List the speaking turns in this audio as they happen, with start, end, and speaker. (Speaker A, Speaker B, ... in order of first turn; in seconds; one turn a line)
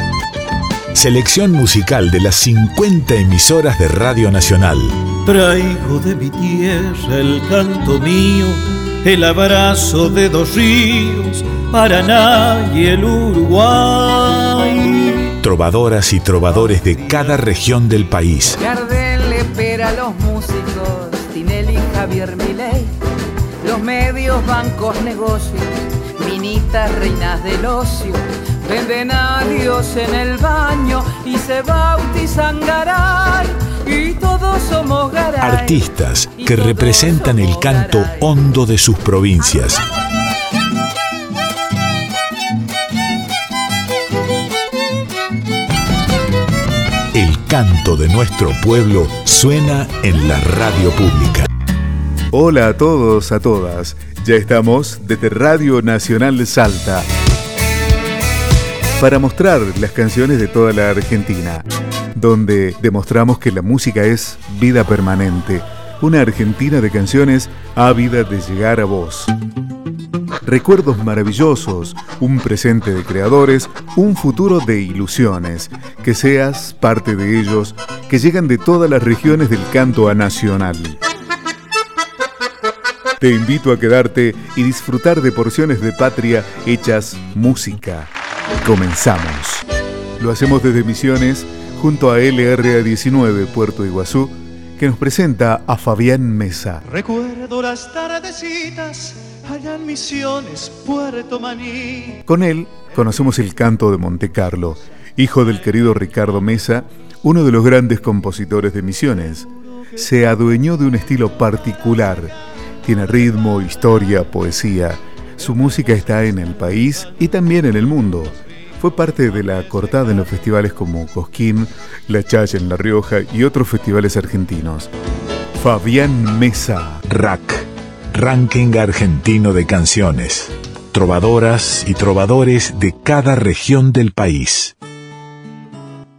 Speaker A: 0.9-5.0
Speaker B: 5.2-15.2
Speaker A: 15.4-18.6
Speaker C: 18.6-22.9
Speaker C: 23.6-38.3
Speaker A: 35.4-39.8
Speaker A: 47.1-51.5
Speaker D: 52.3-57.1
Speaker D: 59.0-69.3
Speaker D: 70.4-81.0
Speaker D: 83.2-89.6
Speaker D: 90.2-96.8
Speaker E: 97.2-102.0
Speaker D: 102.3-124.9
Speaker D: 125.6-127.0
Speaker A: 127.1-134.7